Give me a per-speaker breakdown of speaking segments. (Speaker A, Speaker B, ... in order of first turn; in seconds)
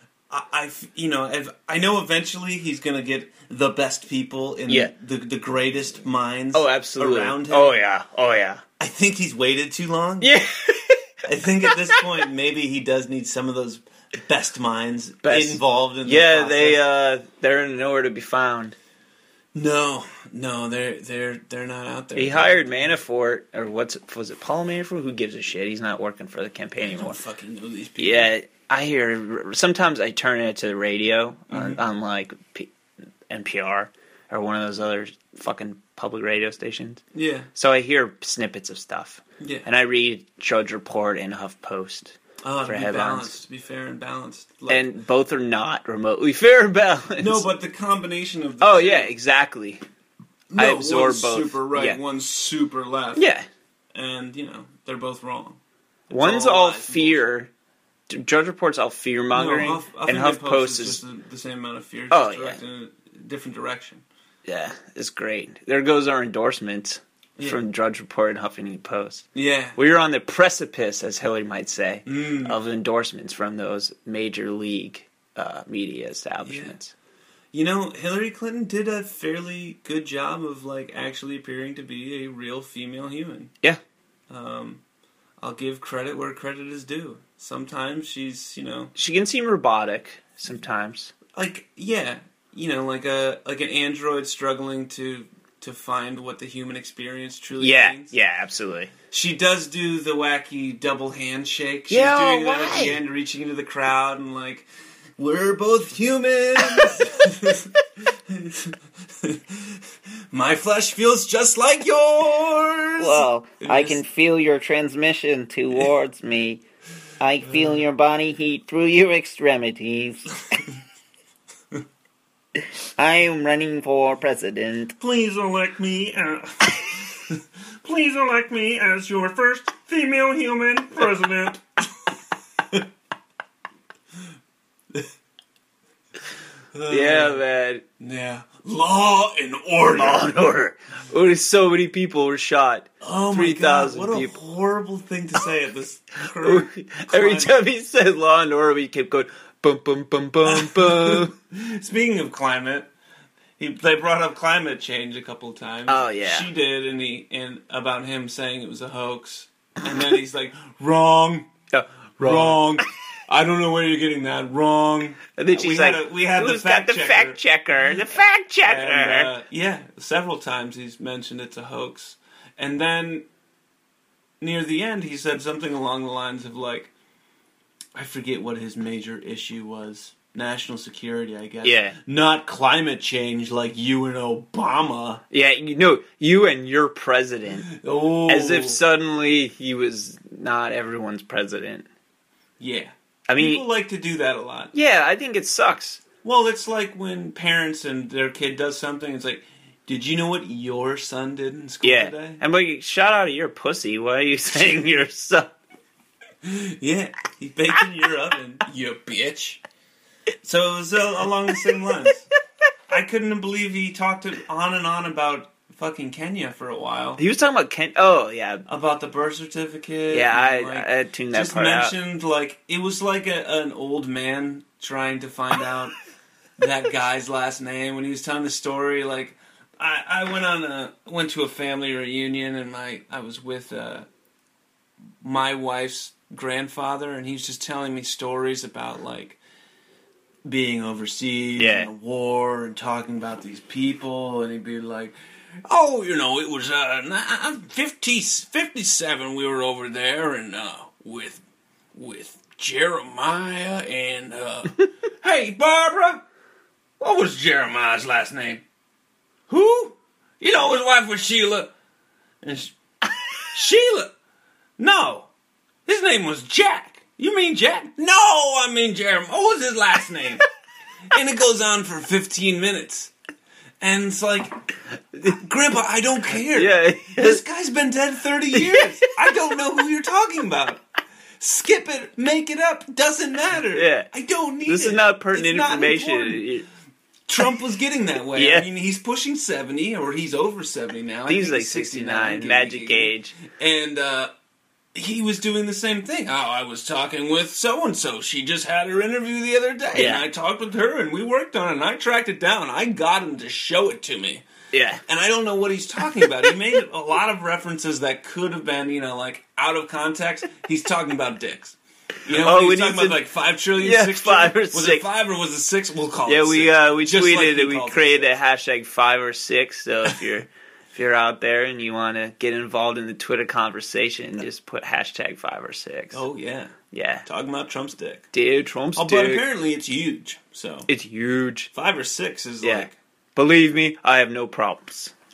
Speaker A: 0.3-7.8, 8.8-10.3, 11.2-16.9, 19.5-22.7, 26.8-28.3, 31.5-31.8, 37.1-37.5, 39.4-39.7, 42.4-44.9, 47.2-49.1, 50.5-53.2, 53.9-55.6, 56.1-57.2, 59.3-64.0, 67.4-67.6, 69.3-69.8, 72.1-72.6, 76.4-76.8, 77.5-83.5, 84.3-84.8, 85.4-88.9, 91.3-98.2, 99.1-107.8, 108.3-109.7, 110.3-114.0, 117.5-117.8, 125.0-132.1, 136.7-137.4, 138.0-140.3, 143.0-147.6, 150.4-152.9, 153.6-161.5, 162.2-167.4, 168.6-173.3, 174.4-176.9, 177.9-185.2, 187.7-188.8, 192.6-194.7, 196.2-202.4, 206.4-209.6, 210.4-212.2, 212.9-217.2, 218.7-225.9, 226.6-234.1, 235.2-239.4, 240.4-245.2, 245.7-256.2, 257.0-258.6, 259.5-261.7, 262.4-262.8, 263.4-264.1, 264.8-265.3, 265.9-270.4, 271.1-273.1, 273.8-274.6, 275.2-280.8, 281.4-286.5, 287.3-294.3, 294.9-304.5, 305.1-318.4, 326.1-326.8, 327.3-328.3, 329.0-330.9, 331.7-333.0
Speaker B: 6.5-8.6, 10.2-11.1, 15.2-18.8, 22.2-27.2, 28.0-32.7, 33.3-37.0, 37.5-43.4, 44.7-47.5, 48.6-49.8, 50.6-52.0, 53.2-53.5, 56.1-57.5, 58.1-61.0, 62.1-62.6, 64.5-69.2, 69.8-76.9, 89.0-91.1, 97.6-98.9, 101.9-103.0, 113.0-116.6, 117.2-120.3, 123.0-125.0, 136.9-137.8, 139.9-144.4, 146.4-151.3, 155.9-156.5, 161.7-162.8, 165.4-169.3, 181.6-182.0, 185.3-187.7, 188.3-191.9, 193.3-193.7, 194.7-196.0, 201.8-205.5, 211.5-212.0, 217.2-218.6, 220.1-221.9, 241.6-241.9, 276.3-277.4, 278.5-279.4, 283.7-284.1, 284.6-286.7, 288.4-288.7, 291.3-293.4, 299.9-300.2, 304.7-305.0, 312.4-313.2, 313.8-315.1, 316.3-326.2, 326.9-327.2, 328.3-329.4, 330.9-331.7, 332.6-335.1